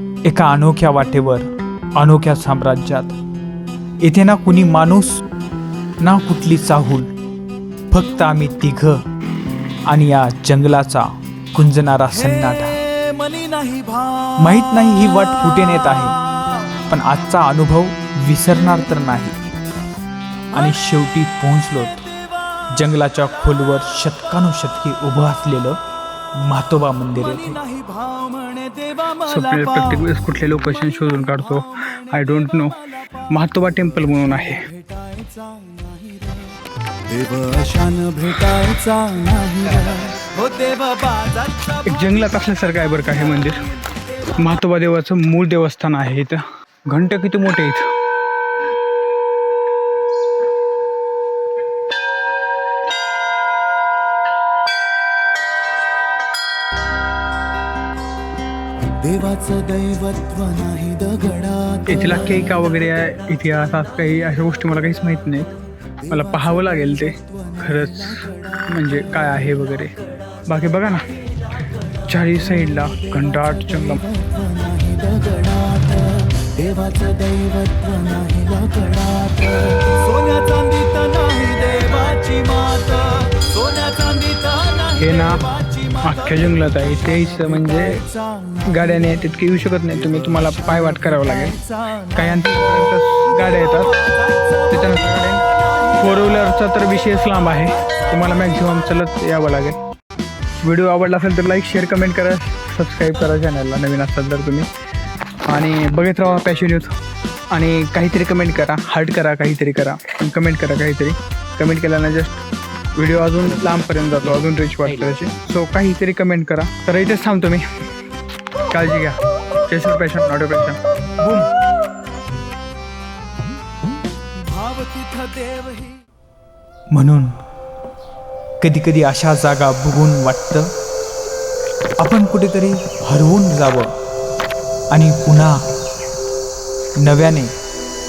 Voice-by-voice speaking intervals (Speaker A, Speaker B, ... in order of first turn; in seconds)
Speaker A: 0.2-3.2, 4.0-5.2, 6.0-7.1, 7.9-9.0, 9.9-12.8, 14.4-16.2, 16.9-19.4, 20.5-22.0, 22.8-25.8, 26.4-27.6, 126.9-127.4, 128.6-130.7, 132.0-133.9, 134.9-135.6, 137.0-137.5
Speaker B: 13.1-14.2, 27.8-29.1, 35.0-36.4, 37.1-41.8, 59.0-61.8, 74.2-85.0, 124.6-125.8
Speaker C: 29.2-32.8, 33.3-34.6, 41.8-43.7, 44.4-47.9, 61.9-65.5, 66.1-69.9, 70.5-71.0, 72.1-74.0, 85.0-85.5, 86.0-88.0, 88.7-91.6, 92.1-94.0, 94.6-99.8, 100.6-104.7, 105.5-106.9, 107.5-112.4, 113.0-117.6, 118.7-119.1, 119.7-120.8